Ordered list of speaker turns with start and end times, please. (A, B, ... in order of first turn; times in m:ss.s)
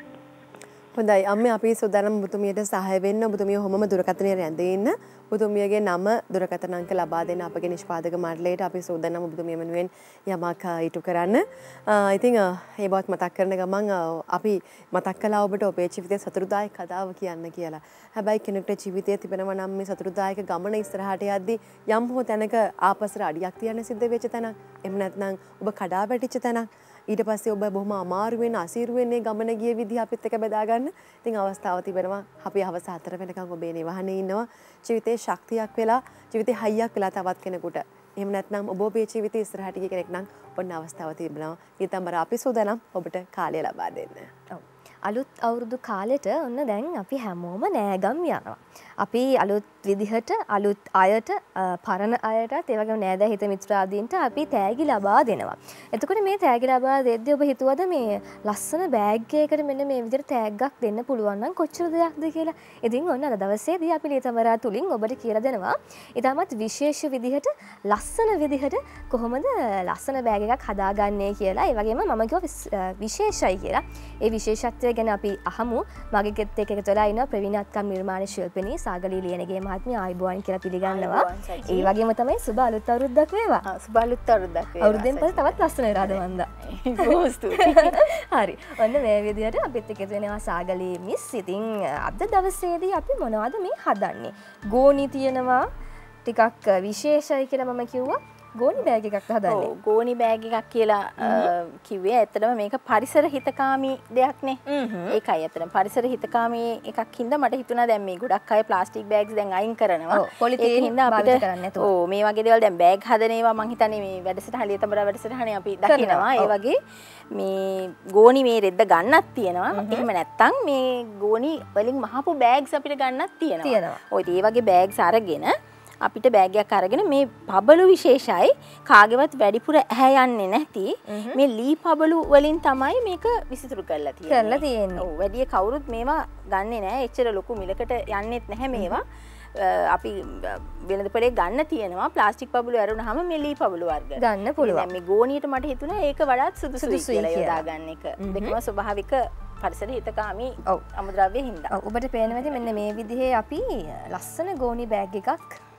0:01.0-0:44.3 A
0:44.5-1:23.6 B
1:20.8-1:21.9 C
1:23.6-1:28.0 C
1:24.8-1:35.7 B
1:36.3-1:39.7 B
1:39.5-1:56.8 C
1:41.2-1:41.5 B
1:44.7-1:45.2 B
1:50.1-1:51.9 B
1:55.9-1:56.5 B
1:57.4-2:31.8 C
1:59.7-2:00.1 B
2:03.6-2:04.0 B
2:11.1-2:11.4 B
2:14.3-2:15.1 B
2:18.7-2:19.0 B
2:24.2-2:24.9 B
2:26.8-2:27.7 B
2:28.2-2:28.6 B
2:31.7-2:35.6 B
2:32.3-2:32.7 C